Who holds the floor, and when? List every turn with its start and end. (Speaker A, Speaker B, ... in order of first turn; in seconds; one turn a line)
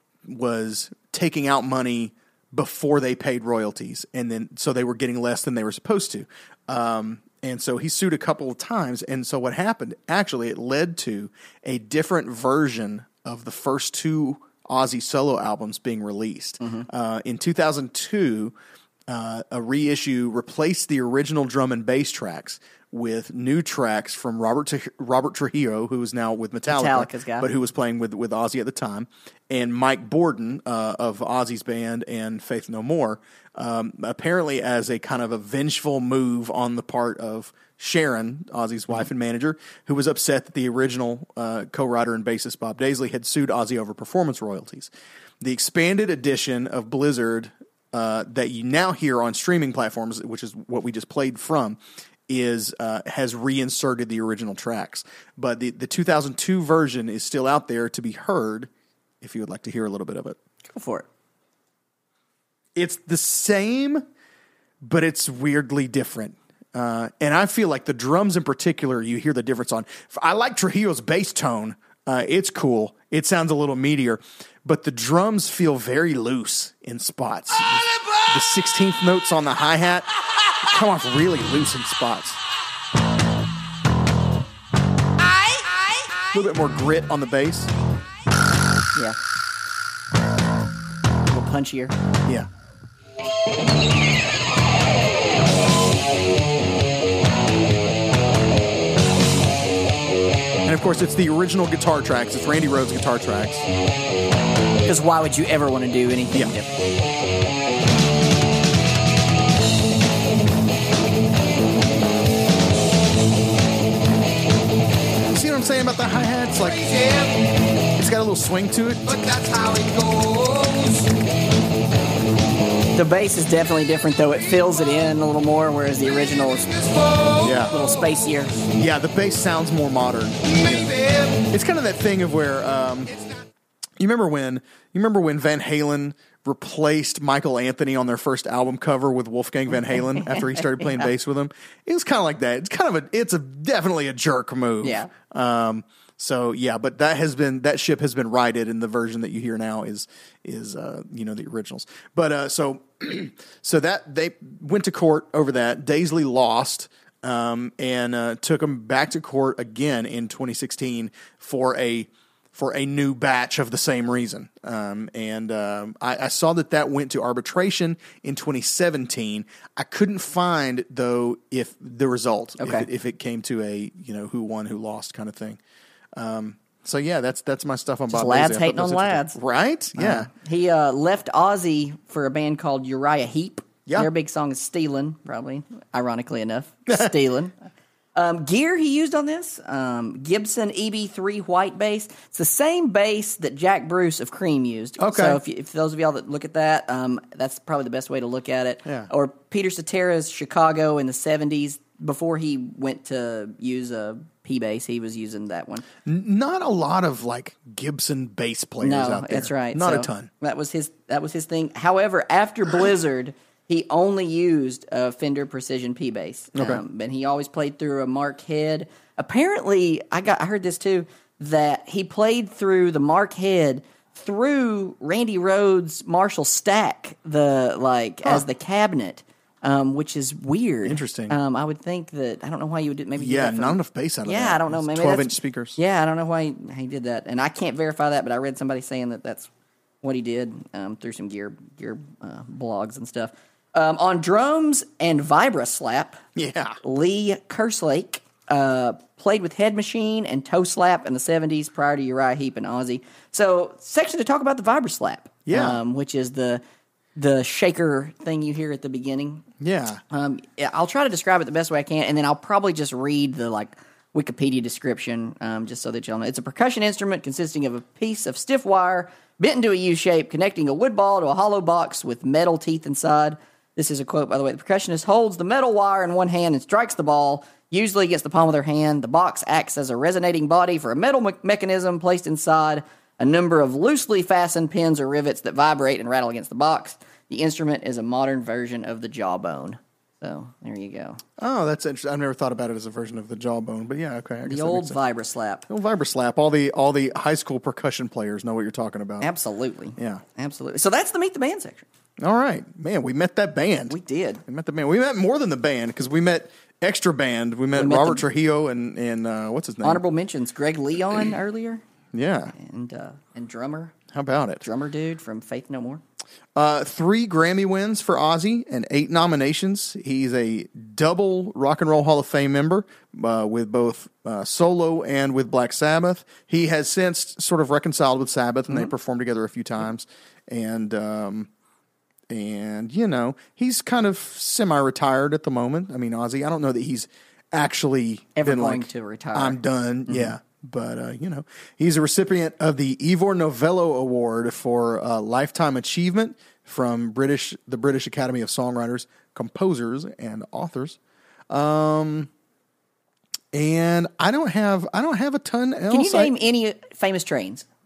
Speaker A: 0.2-18.5
Speaker B: 16.6-16.9
Speaker A: 19.1-58.7
Speaker B: 26.7-27.5
Speaker A: 59.2-60.4
Speaker B: 60.7-61.0
Speaker A: 62.8-64.0
Speaker A: 64.8-80.1
Speaker A: 80.6-82.4
Speaker A: 86.3-87.7
Speaker B: 91.3-91.9
Speaker A: 100.6-103.7
Speaker B: 104.8-106.7
Speaker A: 115.3-116.8
Speaker C: 116.6-117.4
Speaker A: 118.0-119.0
Speaker C: 119.0-121.1
Speaker B: 122.9-126.7
Speaker C: 126.7-127.8
Speaker A: 127.4-127.7
Speaker B: 127.7-128.6
Speaker A: 128.7-130.9
Speaker C: 130.5-131.4
Speaker A: 131.5-133.1
Speaker A: 134.0-175.6
Speaker B: 140.2-141.1
Speaker B: 144.8-145.1
Speaker B: 172.6-172.9
Speaker A: 176.2-180.3
Speaker B: 178.1-179.4
Speaker B: 180.0-187.5
Speaker B: 188.2-205.8
Speaker A: 195.0-195.4
Speaker A: 198.8-199.1
Speaker A: 206.1-210.3
Speaker B: 208.8-239.5
Speaker A: 216.5-216.8
Speaker A: 230.8-231.4
Speaker A: 233.2-235.8
Speaker B: 240.0-246.2
Speaker A: 246.3-246.8
Speaker B: 246.8-256.6
Speaker A: 255.5-255.8
Speaker B: 257.1-259.4
Speaker A: 259.6-260.0
Speaker B: 260.1-291.2
Speaker A: 291.4-295.0
Speaker B: 294.4-295.7
Speaker A: 295.7-299.3
Speaker B: 299.2-301.9
Speaker A: 300.0-300.2
Speaker A: 302.2-303.9
Speaker B: 303.9-304.4
Speaker A: 304.5-310.0
Speaker B: 307.7-308.2
Speaker B: 309.8-311.8
Speaker A: 312.1-312.5
Speaker B: 312.6-313.9
Speaker A: 314.1-314.6
Speaker B: 314.6-316.0
Speaker A: 316.5-331.5
Speaker A: 332.3-351.0
Speaker B: 338.4-340.3
Speaker A: 351.5-352.3
Speaker A: 353.5-356.3
Speaker B: 355.9-357.6